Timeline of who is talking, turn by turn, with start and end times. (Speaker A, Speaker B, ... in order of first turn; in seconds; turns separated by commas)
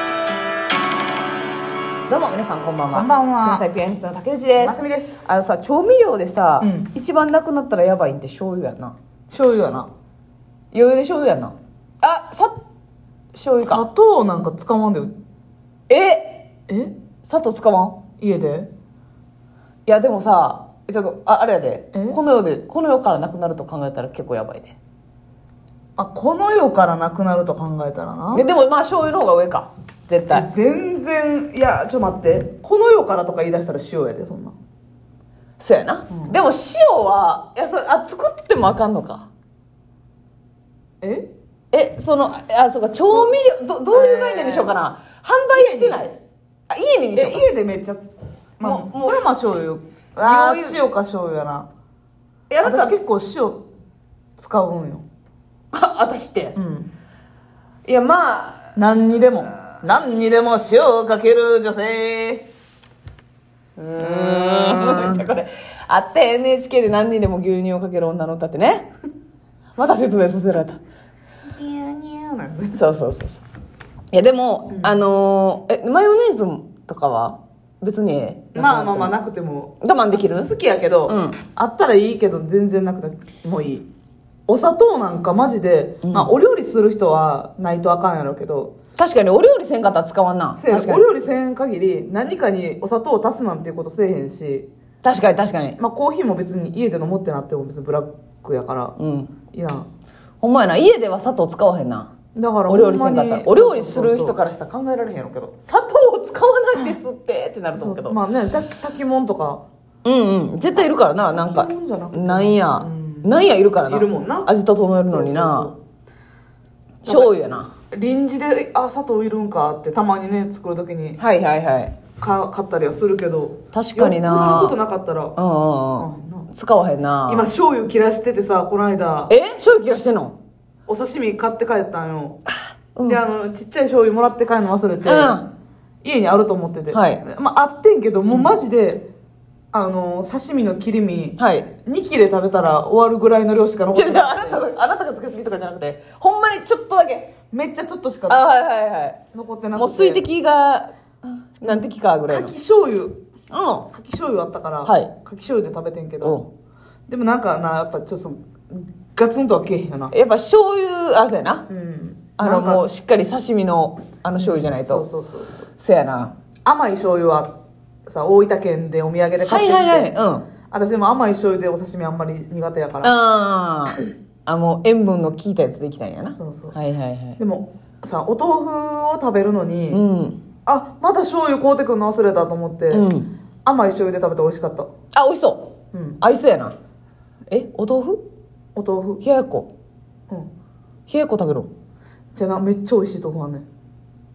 Speaker A: 2.1-9.0, Speaker B: 2.9-3.7, Speaker B: 4.6-5.4, Speaker B: 6.6-6.9, Speaker B: 9.3-9.9, Speaker A: 10.7-12.5, Speaker A: 13.3-13.8, Speaker B: 13.5-15.2, Speaker A: 15.9-16.5, Speaker B: 16.7-16.9, Speaker A: 17.2-18.0, Speaker B: 18.2-18.7, Speaker A: 19.9-24.8, Speaker B: 21.9-22.2, Speaker B: 26.0-28.5, Speaker A: 28.3-30.5, Speaker B: 30.3-34.5, Speaker A: 35.6-39.3, Speaker B: 36.1-36.4, Speaker B: 41.0-41.3, Speaker A: 41.7-46.2, Speaker B: 42.9-43.4, Speaker B: 43.9-44.7, Speaker B: 45.5-46.0, Speaker A: 46.7-47.5, Speaker B: 47.1-51.7, Speaker A: 48.6-49.3, Speaker A: 50.2-50.8, Speaker A: 52.5-53.0, Speaker B: 52.6-53.6, Speaker B: 54.4-55.1, Speaker A: 55.7-56.6, Speaker B: 56.5-56.9, Speaker A: 57.9-58.6, Speaker B: 58.8-62.5, Speaker A: 63.8-68.9, Speaker B: 64.0-65.3, Speaker A: 69.8-70.8, Speaker B: 71.5-72.8, Speaker A: 72.7-73.4, Speaker A: 74.1-79.1, Speaker B: 74.7-75.0, Speaker B: 78.5-83.9, Speaker A: 79.8-80.5, Speaker A: 81.1-81.4, Speaker B: 84.5-88.7, Speaker A: 86.0-86.3, Speaker A: 89.0-91.0, Speaker B: 90.6-94.7, Speaker A: 95.0-95.8, Speaker B: 95.8-99.0, Speaker A: 99.0-99.3, Speaker B: 99.5-99.9, Speaker A: 100.4-102.1, Speaker B: 102.3-104.4, Speaker A: 102.7-108.2, Speaker B: 107.8-109.6, Speaker A: 110.0-115.7, Speaker B: 110.7-114.5, Speaker B: 115.0-115.8, Speaker A: 117.0-117.7, Speaker B: 117.0-117.4, Speaker B: 117.9-121.2, Speaker A: 121.2-121.9, Speaker B: 122.2-125.4, Speaker A: 123.7-124.8, Speaker A: 125.4-127.5, Speaker B: 125.9-126.5, Speaker B: 127.3-129.3, Speaker A: 129.3-130.3, Speaker B: 130.9-132.4, Speaker A: 132.9-133.2, Speaker B: 133.0-135.4, Speaker A: 135.1-135.5, Speaker B: 136.0-139.1, Speaker A: 136.9-137.2, Speaker B: 139.7-144.6, Speaker A: 141.4-141.7, Speaker A: 143.9-147.3, Speaker B: 147.5-148.5, Speaker A: 148.3-149.2, Speaker B: 149.3-150.3, Speaker A: 149.8-152.5, Speaker B: 151.6-153.2, Speaker A: 153.5-153.9, Speaker B: 153.9-156.4, Speaker A: 154.8-155.1, Speaker A: 156.2-156.5, Speaker B: 157.1-160.1, Speaker A: 160.1-161.7, Speaker B: 161.7-162.9, Speaker A: 162.4-165.1, Speaker B: 164.4-165.7, Speaker A: 165.8-166.3, Speaker B: 166.7-167.5, Speaker B: 168.1-170.1, Speaker A: 169.4-170.5, Speaker B: 170.7-173.2, Speaker A: 173.0-177.4, Speaker B: 176.3-176.8, Speaker B: 177.4-180.0, Speaker A: 179.9-180.4, Speaker B: 180.7-183.1, Speaker A: 182.9-183.3, Speaker B: 183.7-184.9, Speaker A: 185.1-186.8, Speaker B: 185.9-186.2, Speaker A: 187.5-188.2, Speaker B: 188.8-189.2, Speaker A: 189.2-189.7, Speaker A: 191.1-191.7, Speaker B: 192.3-193.7